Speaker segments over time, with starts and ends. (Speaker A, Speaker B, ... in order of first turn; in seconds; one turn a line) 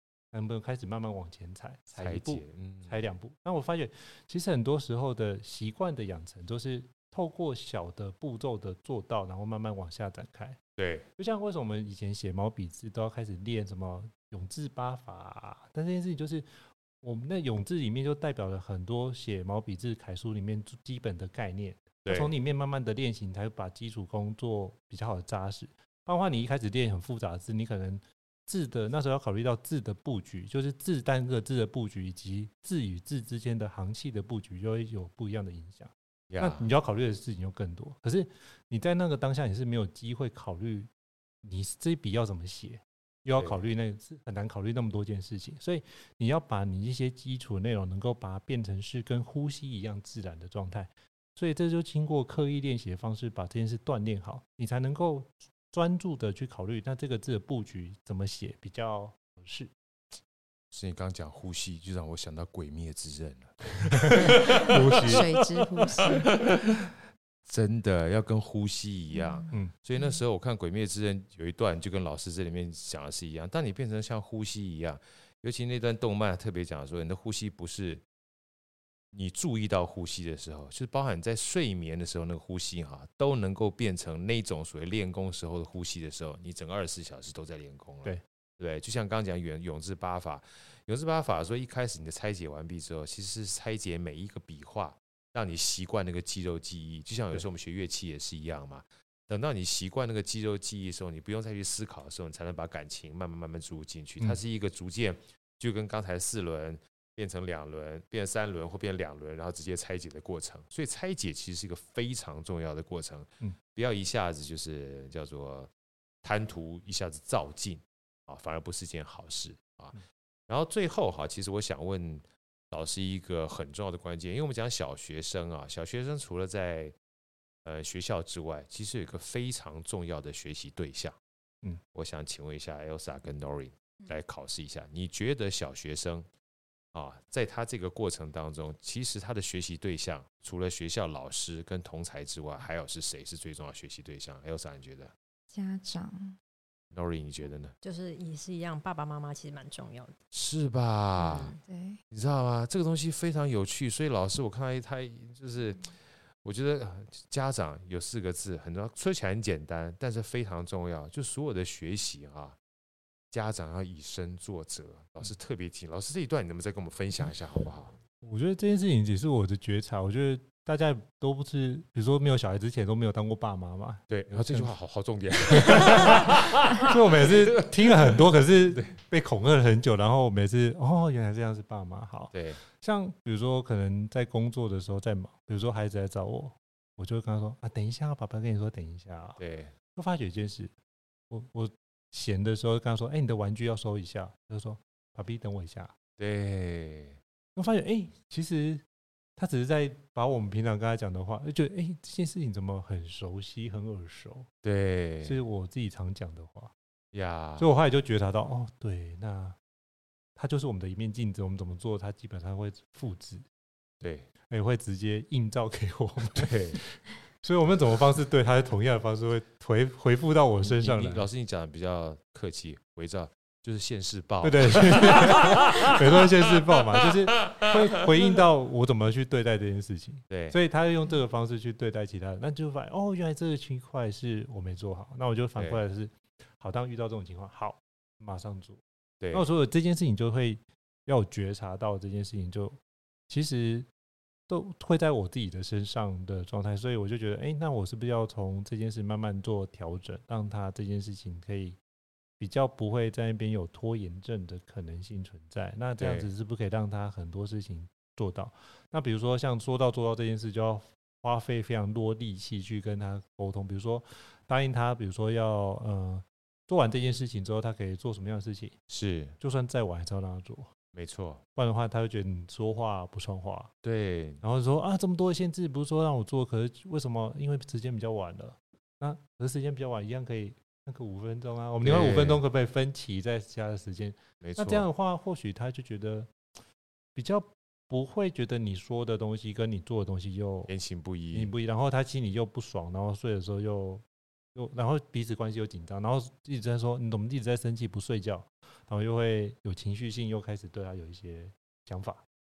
Speaker A: 0.3-10.6
Speaker B: 1.9-3.1
Speaker B: 10.8-11.1
Speaker A: 11.2-40.9
Speaker B: 22.0-22.3
Speaker B: 36.3-36.7
Speaker A: 41.4-59.7
Speaker B: 60.7-65.4
Speaker A: 64.0-65.2
Speaker C: 64.3-66.3
Speaker B: 66.0-66.9
Speaker B: 67.5-78.0
Speaker C: 69.1-70.2
Speaker B: 79.1-115.7
Speaker B: 116.2-120.0
Speaker B: 120.5-126.9
Speaker B: 127.6-131.2
Speaker B: 131.9-136.3
Speaker B: 136.9-145.1
Speaker C: 145.5-146.4
Speaker B: 146.9-147.7
Speaker D: 147.8-150.1
Speaker B: 150.3-151.5
Speaker D: 151.2-151.6
Speaker C: 151.7-152.0
Speaker B: 152.1-155.8
Speaker B: 156.4-162.6
Speaker B: 163.3-167.9
Speaker A: 168.2-174.7
Speaker B: 174.1-179.0
Speaker A: 175.5-189.4
Speaker B: 182.3-182.6
Speaker B: 189.4-189.7
Speaker A: 189.9-190.7
Speaker A: 191.3-195.9
Speaker B: 196.2-197.2
Speaker A: 197.6-198.8
Speaker A: 199.4-204.5
Speaker B: 204.6-205.4
Speaker A: 205.2-206.7
Speaker B: 207.1-207.7
Speaker A: 207.6-209.6
Speaker A: 210.3-213.4
Speaker B: 214.0-214.3
Speaker A: 214.5-221.2
Speaker B: 216.3-216.8
Speaker B: 220.6-228.0
Speaker A: 224.4-238.8
Speaker B: 230.3-230.6
Speaker B: 235.6-235.8
Speaker B: 239.2-239.4
Speaker A: 239.3-242.8
Speaker A: 243.3-243.9
Speaker A: 244.5-251.8
Speaker A: 252.4-268.8
Speaker B: 256.0-256.3
Speaker B: 268.9-269.3
Speaker A: 269.4-270.7
Speaker B: 270.9-271.4
Speaker A: 271.6-273.7
Speaker B: 273.8-274.4
Speaker A: 274.4-286.3
Speaker B: 281.8-282.4
Speaker B: 284.4-284.9
Speaker A: 287.1-290.7
Speaker B: 290.7-291.5
Speaker A: 291.3-294.0
Speaker A: 294.5-302.2